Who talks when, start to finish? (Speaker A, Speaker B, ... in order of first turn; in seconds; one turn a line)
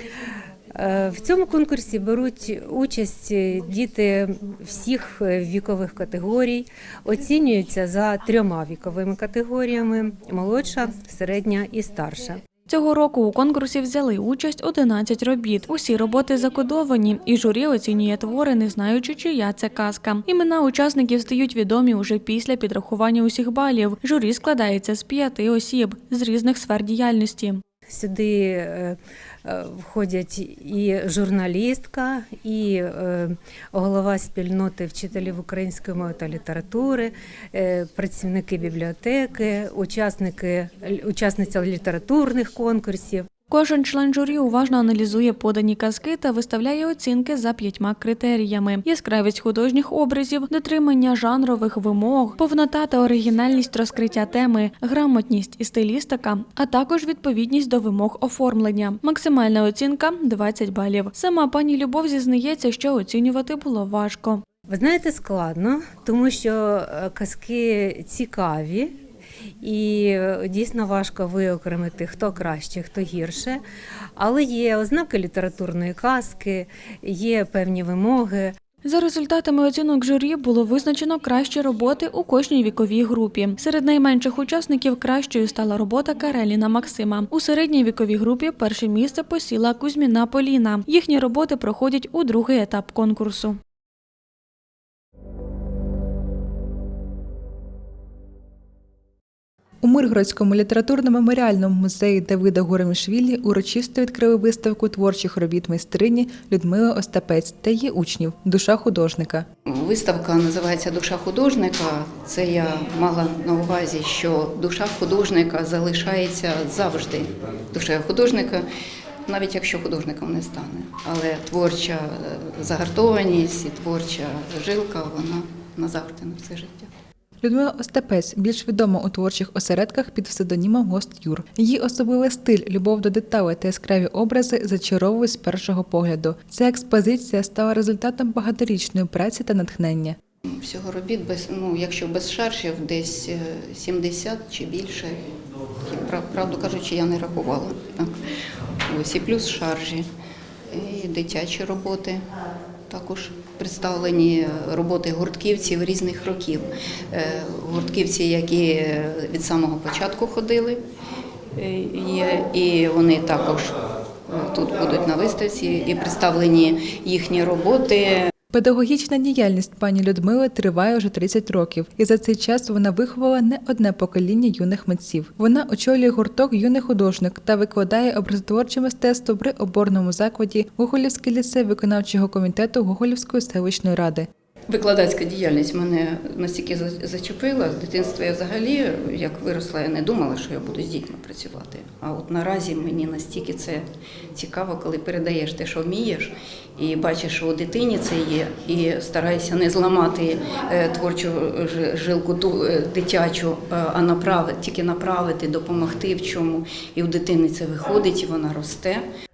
Speaker A: 0.7-12.4
Speaker B: 12.7-27.6
Speaker A: 27.9-43.3
Speaker B: 43.5-64.4
Speaker A: 64.7-69.0
Speaker A: 69.6-73.6
Speaker A: 74.2-78.5
Speaker B: 78.8-93.6
Speaker C: 99.8-109.5
Speaker D: 109.7-118.6
Speaker D: 119.2-126.9
Speaker C: 127.4-140.2
Speaker D: 140.4-145.2
Speaker D: 145.9-148.2
Speaker D: 148.9-150.1
Speaker D: 150.7-152.2
Speaker D: 152.9-160.8
Speaker D: 161.5-163.7
Speaker D: 164.3-168.3
Speaker C: 168.5-184.3
Speaker D: 184.7-209.0